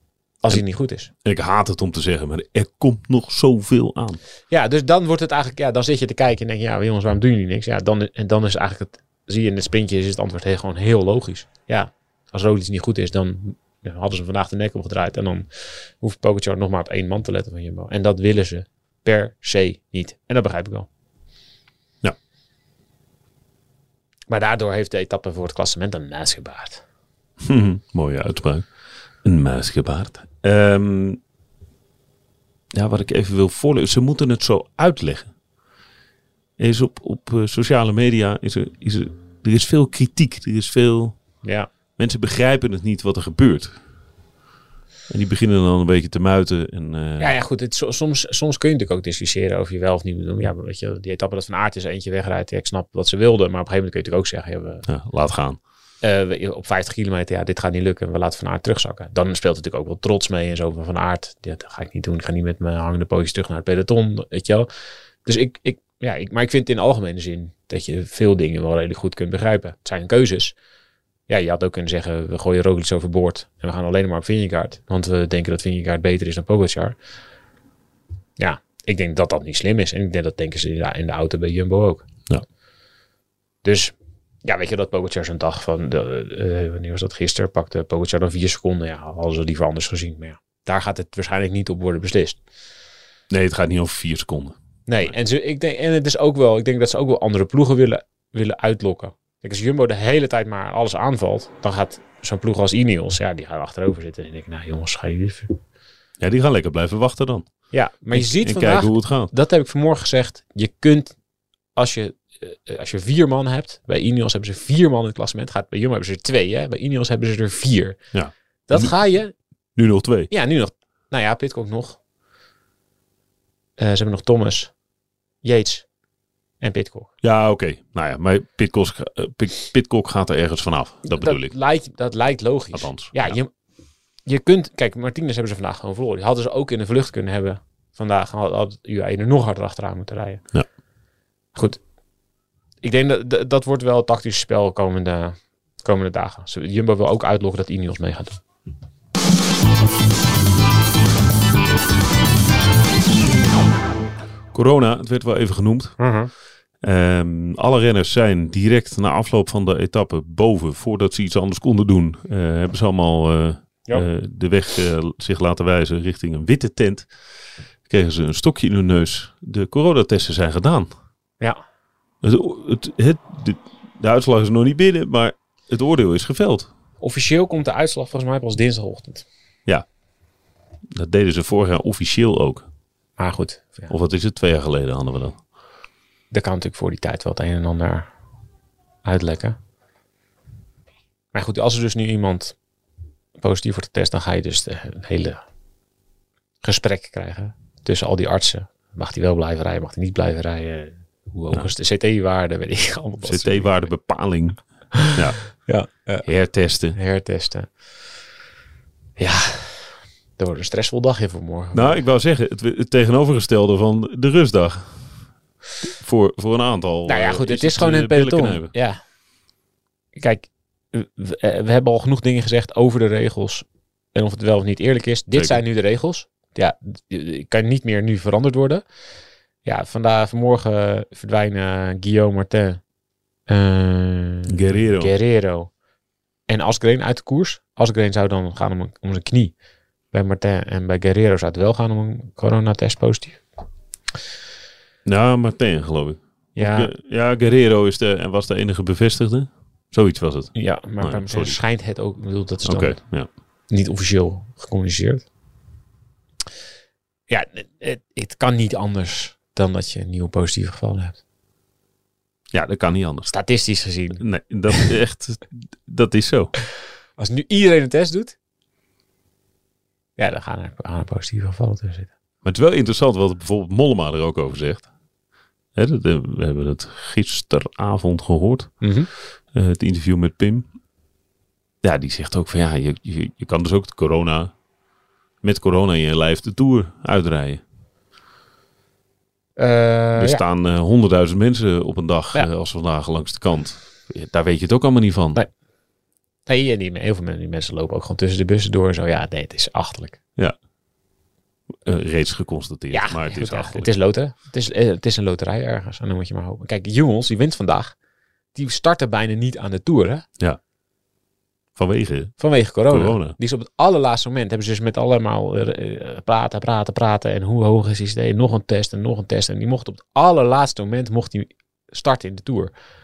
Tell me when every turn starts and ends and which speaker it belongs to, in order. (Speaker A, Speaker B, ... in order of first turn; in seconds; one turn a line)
Speaker A: 0.4-1.1
Speaker B: 1.2-4.2
Speaker A: 4.5-20.9
Speaker A: 24.3-26.8
Speaker B: 27.4-28.6
Speaker B: 29.2-31.2
Speaker B: 32.7-35.3
Speaker B: 36.6-41.2
Speaker A: 41.4-41.7
Speaker B: 42.0-43.8
Speaker B: 45.1-47.3
Speaker A: 47.2-54.9
Speaker B: 54.9-55.6
Speaker A: 56.0-64.7
Speaker A: 65.2-70.6
Speaker A: 71.3-77.0
Speaker A: 78.4-82.1
Speaker A: 83.6-92.4
Speaker B: 93.3-94.6
Speaker A: 94.9-105.6
Speaker B: 106.2-107.5
Speaker A: 107.7-111.1
Speaker B: 108.1-109.3
Speaker A: 111.8-118.0
Speaker B: 118.1-118.9
Speaker A: 118.7-119.3
Speaker B: 119.8-120.3
Speaker A: 120.3-122.0
Speaker A: 123.8-124.7
Speaker A: 125.4-125.9
Speaker A: 126.6-127.1
Speaker B: 127.2-131.5
Speaker A: 131.1-133.5
Speaker B: 132.7-133.3
Speaker A: 134.2-140.4
Speaker A: 141.6-141.8
Speaker A: 142.8-148.4
Speaker B: 154.5-155.9
Speaker A: 156.0-156.3
Speaker B: 156.8-167.1
Speaker B: 167.9-170.9
Speaker B: 172.2-176.7
Speaker A: 177.0-179.2
Speaker B: 180.9-182.7
Speaker A: 183.2-183.9
Speaker B: 183.9-185.4
Speaker A: 186.3-188.1
Speaker A: 189.0-189.6
Speaker A: 191.3-192.6
Speaker A: 193.4-195.4
Speaker A: 196.6-203.8
Speaker B: 203.2-205.5
Speaker A: 204.9-206.3
Speaker B: 206.2-207.0
Speaker A: 206.9-207.7
Speaker A: 209.2-212.1
Speaker B: 211.8-215.0
Speaker B: 215.8-218.7
Speaker A: 217.1-219.0
Speaker A: 220.1-228.8
Speaker B: 225.3-225.6
Speaker A: 229.6-232.8
Speaker A: 233.5-235.7
Speaker B: 234.5-235.1
Speaker A: 236.5-239.5
Speaker A: 240.1-243.4
Speaker B: 245.1-251.6
Speaker A: 246.6-246.9
Speaker A: 250.5-253.0
Speaker B: 252.6-253.3
Speaker A: 253.7-255.2
Speaker A: 257.3-261.2
Speaker B: 262.5-263.3
Speaker A: 263.3-264.2
Speaker B: 264.2-266.5
Speaker A: 267.2-268.4
Speaker A: 270.2-272.1
Speaker B: 272.4-274.9
Speaker B: 275.8-278.7
Speaker A: 278.8-279.1
Speaker B: 279.5-280.6
Speaker B: 281.8-284.5
Speaker B: 285.4-287.6
Speaker A: 289.6-290.4
Speaker B: 290.1-295.4
Speaker A: 296.4-300.2
Speaker B: 301.9-303.9
Speaker A: 302.9-307.9
Speaker A: 308.5-310.2
Speaker B: 311.8-313.4
Speaker A: 312.4-322.7